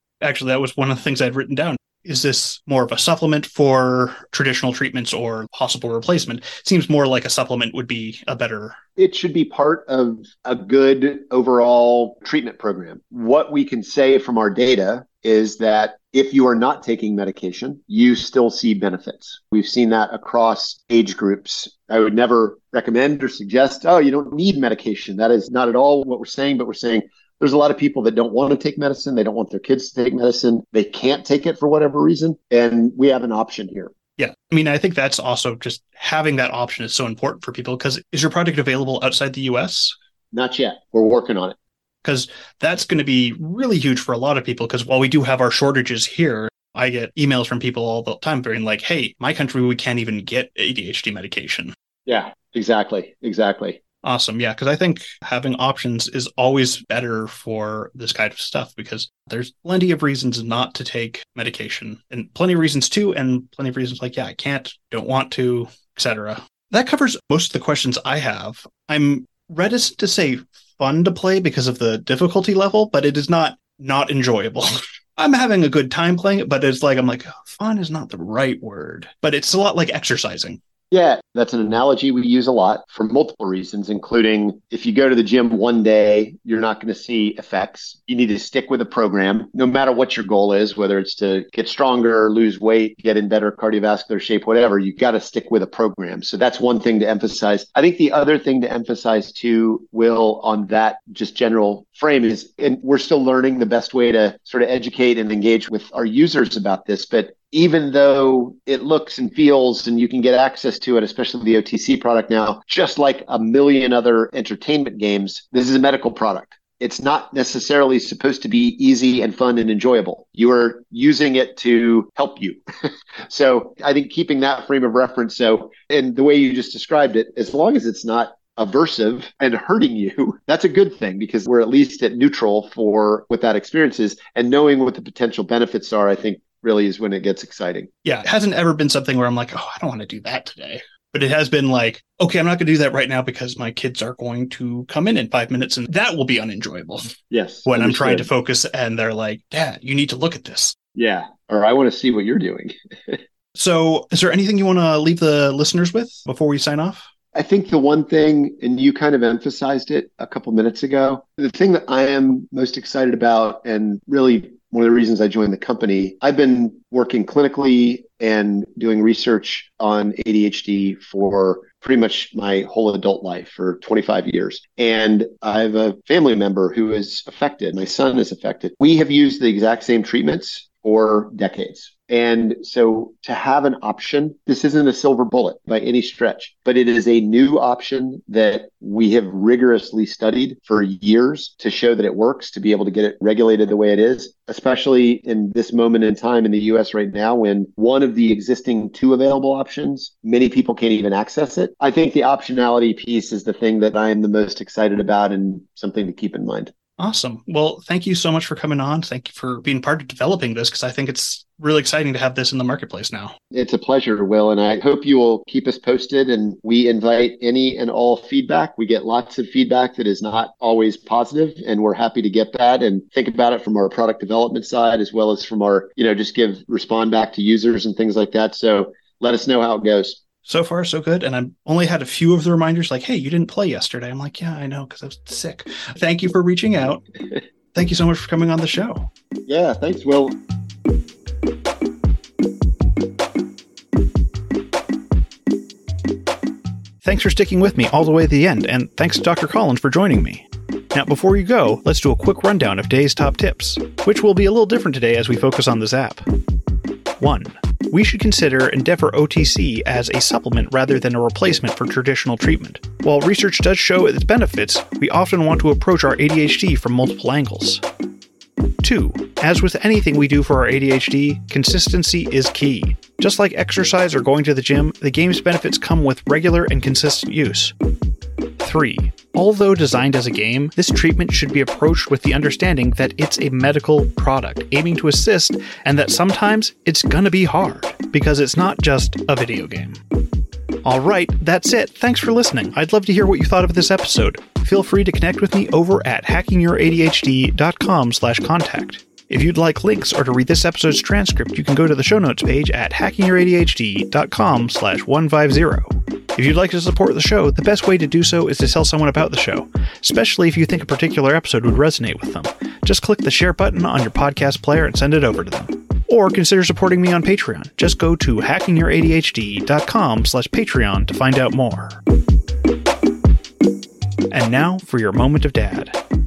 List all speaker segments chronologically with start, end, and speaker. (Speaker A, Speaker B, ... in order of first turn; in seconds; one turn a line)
Speaker A: 0.2-8.8
Speaker B: 9.0-33.9
Speaker A: 34.2-40.0
Speaker B: 40.3-41.5
Speaker A: 42.0-51.7
Speaker B: 52.1-53.8
Speaker A: 54.0-80.6
Speaker B: 80.9-122.6
Speaker B: 123.3-137.9
Speaker A: 138.0-147.0
Speaker B: 147.3-148.3
Speaker A: 147.7-150.8
Speaker B: 150.9-153.2
Speaker A: 153.6-157.1
Speaker B: 157.3-206.7
Speaker A: 207.0-213.4
Speaker B: 213.5-230.2
Speaker A: 230.5-237.0
Speaker A: 237.7-239.1
Speaker B: 239.5-240.4
Speaker A: 247.0-256.2
Speaker A: 257.2-267.8
Speaker A: 268.8-277.7
Speaker A: 278.6-290.0
Speaker A: 290.9-322.0
Speaker A: 324.3-326.0